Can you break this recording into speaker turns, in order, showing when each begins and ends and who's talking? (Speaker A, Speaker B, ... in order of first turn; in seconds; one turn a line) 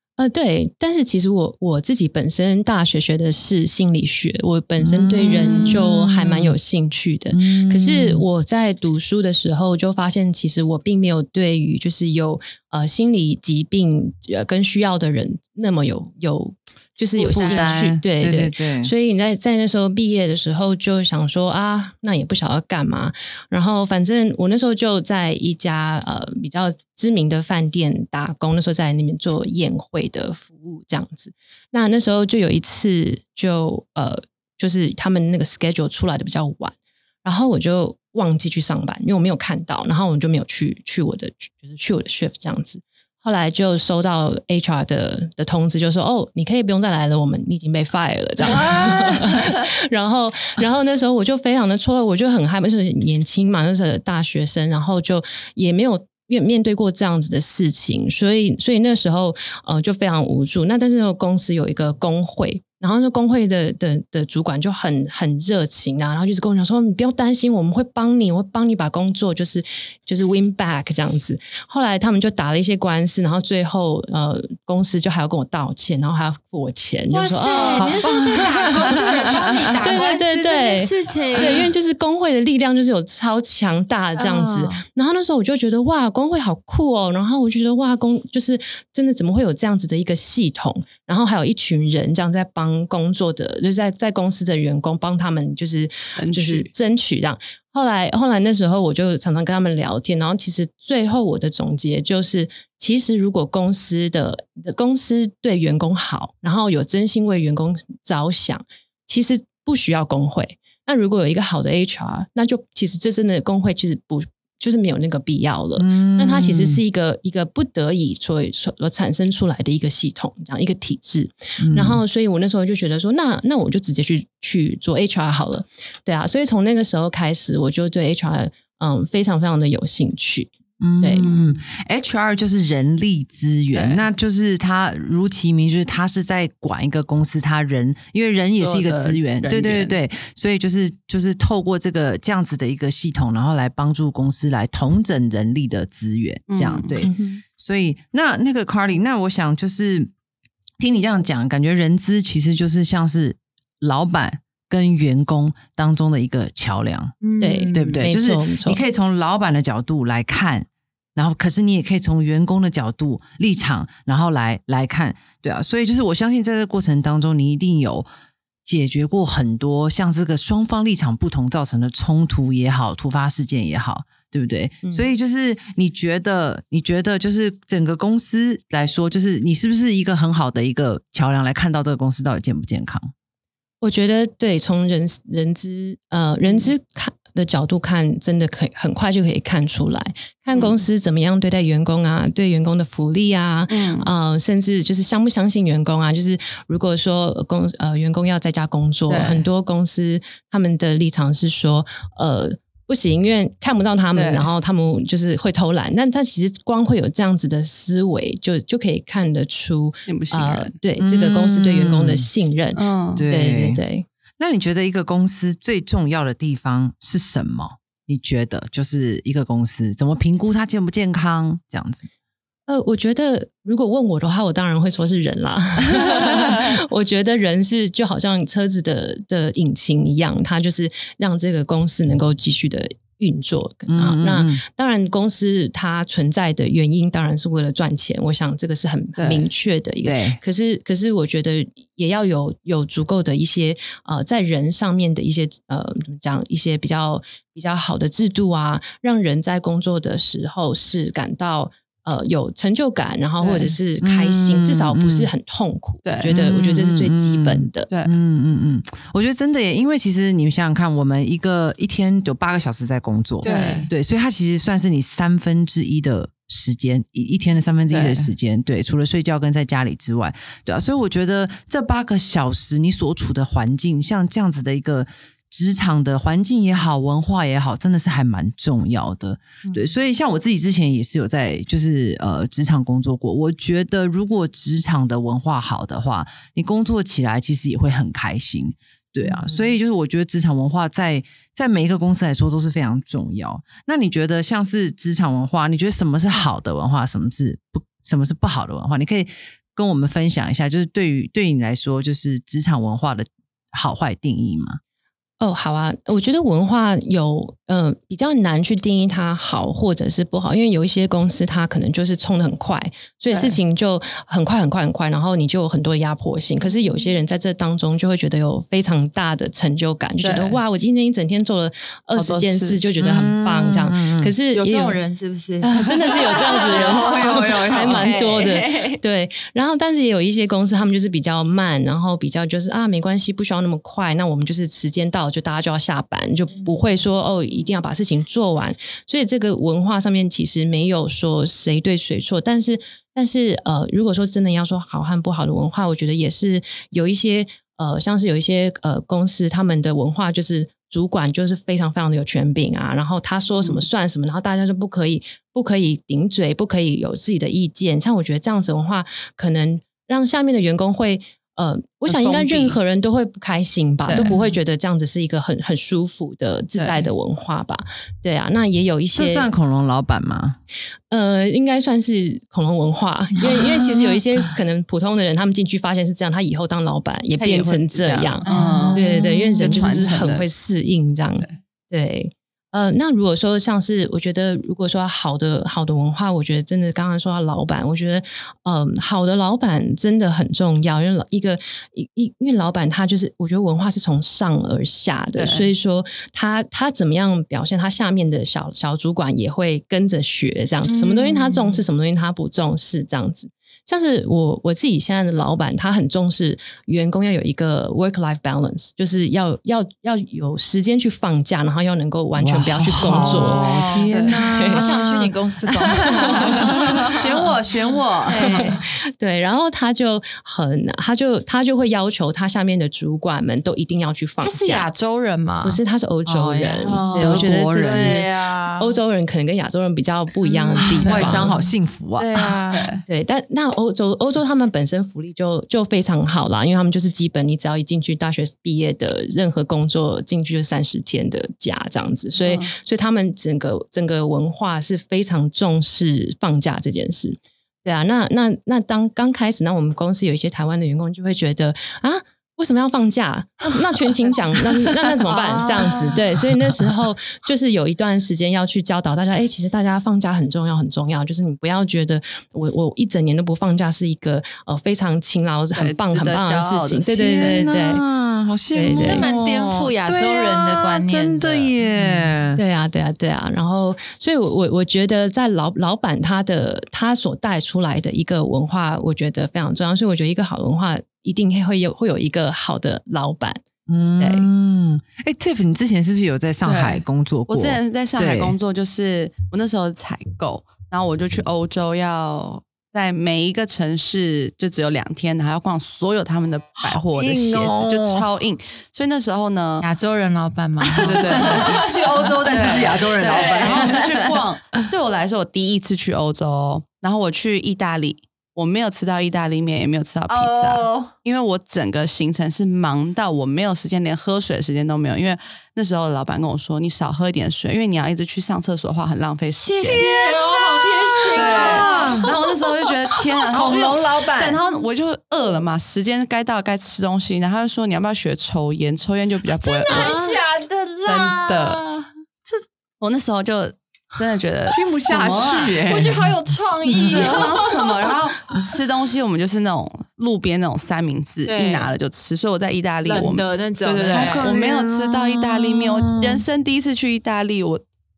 Speaker A: 0.2-79.1
Speaker B: 4.8-6.6
Speaker C: 5.4-5.8
Speaker B: 7.3-8.2
Speaker C: 17.2-17.8
Speaker B: 17.3-18.9
Speaker D: 48.5-49.6
Speaker D: 77.1-81.6
Speaker B: 77.5-80.0
Speaker A: 79.8-131.3
Speaker D: 84.2-84.8
Speaker C: 96.2-96.7
Speaker B: 115.8-116.8
Speaker B: 121.6-122.0
Speaker B: 130.8-150.1
Speaker C: 133.7-134.0
Speaker C: 138.6-139.9
Speaker C: 146.5-147.0
Speaker A: 147.0-147.4
Speaker B: 150.8-157.2
Speaker D: 157.2-158.0
Speaker A: 157.4-158.8
Speaker B: 157.7-168.1
Speaker B: 168.7-183.1
Speaker A: 183.8-214.1
Speaker C: 193.7-194.1
Speaker C: 199.1-199.5
Speaker C: 204.1-204.5
Speaker C: 210.1-210.8
Speaker B: 211.0-212.3
Speaker C: 212.8-213.2
Speaker B: 213.2-213.8
Speaker B: 214.4-222.1
Speaker A: 222.7-257.9
Speaker B: 233.9-234.6
Speaker C: 239.2-239.4
Speaker B: 240.0-240.4
Speaker C: 253.4-253.7
Speaker B: 254.0-255.3
Speaker C: 256.0-256.6
Speaker B: 256.2-304.8
Speaker D: 263.4-263.9
Speaker C: 263.4-263.9
Speaker C: 267.9-268.3
Speaker A: 305.4-325.0
Speaker C: 313.3-313.6
Speaker C: 320.2-320.6
Speaker C: 322.1-322.8
Speaker B: 323.0-324.3
Speaker D: 324.5-329.0
Speaker A: 325.6-369.5
Speaker B: 326.3-328.1
Speaker C: 353.6-353.9
Speaker C: 362.1-362.8
Speaker C: 364.1-364.4
Speaker C: 366.8-367.1
Speaker B: 369.1-370.6
Speaker A: 371.1-414.9
Speaker C: 377.4-379.0
Speaker D: 378.4-379.2
Speaker B: 378.6-380.1
Speaker C: 379.6-380.5
Speaker C: 395.4-395.7
Speaker D: 400.9-401.9
Speaker B: 412.4-415.3
Speaker D: 413.2-418.8
Speaker C: 414.1-414.4
Speaker B: 415.9-418.8
Speaker A: 416.1-416.7
Speaker A: 418.4-424.9
Speaker D: 424.4-425.8
Speaker A: 425.6-431.5
Speaker B: 426.2-428.2
Speaker D: 426.7-429.0
Speaker C: 426.9-427.4
Speaker D: 430.7-431.6
Speaker C: 431.0-431.5
Speaker B: 431.0-432.6
Speaker D: 432.2-432.9
Speaker C: 432.7-433.0
Speaker A: 433.1-468.0
Speaker C: 442.4-442.7
Speaker D: 455.3-456.1
Speaker B: 455.3-456.9
Speaker C: 465.8-467.6
Speaker B: 467.1-472.6
Speaker A: 468.7-469.3
Speaker D: 469.0-471.7
Speaker A: 472.5-483.6
Speaker B: 483.9-488.6
Speaker A: 484.2-484.5
Speaker C: 486.6-499.9
Speaker B: 496.8-498.3
Speaker D: 499.8-504.4
Speaker B: 500.9-504.1
Speaker C: 500.9-501.8
Speaker C: 502.5-520.0
Speaker B: 510.3-511.1
Speaker D: 519.6-523.8
Speaker B: 519.8-522.3
Speaker C: 521.3-530.2
Speaker B: 523.5-524.6
Speaker D: 529.6-532.1
Speaker B: 529.9-530.3
Speaker C: 531.0-531.9
Speaker C: 533.0-535.7
Speaker B: 534.7-536.3
Speaker D: 534.7-538.1
Speaker B: 536.9-537.5
Speaker C: 537.1-547.8
Speaker D: 541.4-541.9
Speaker D: 543.0-544.5
Speaker B: 544.1-546.4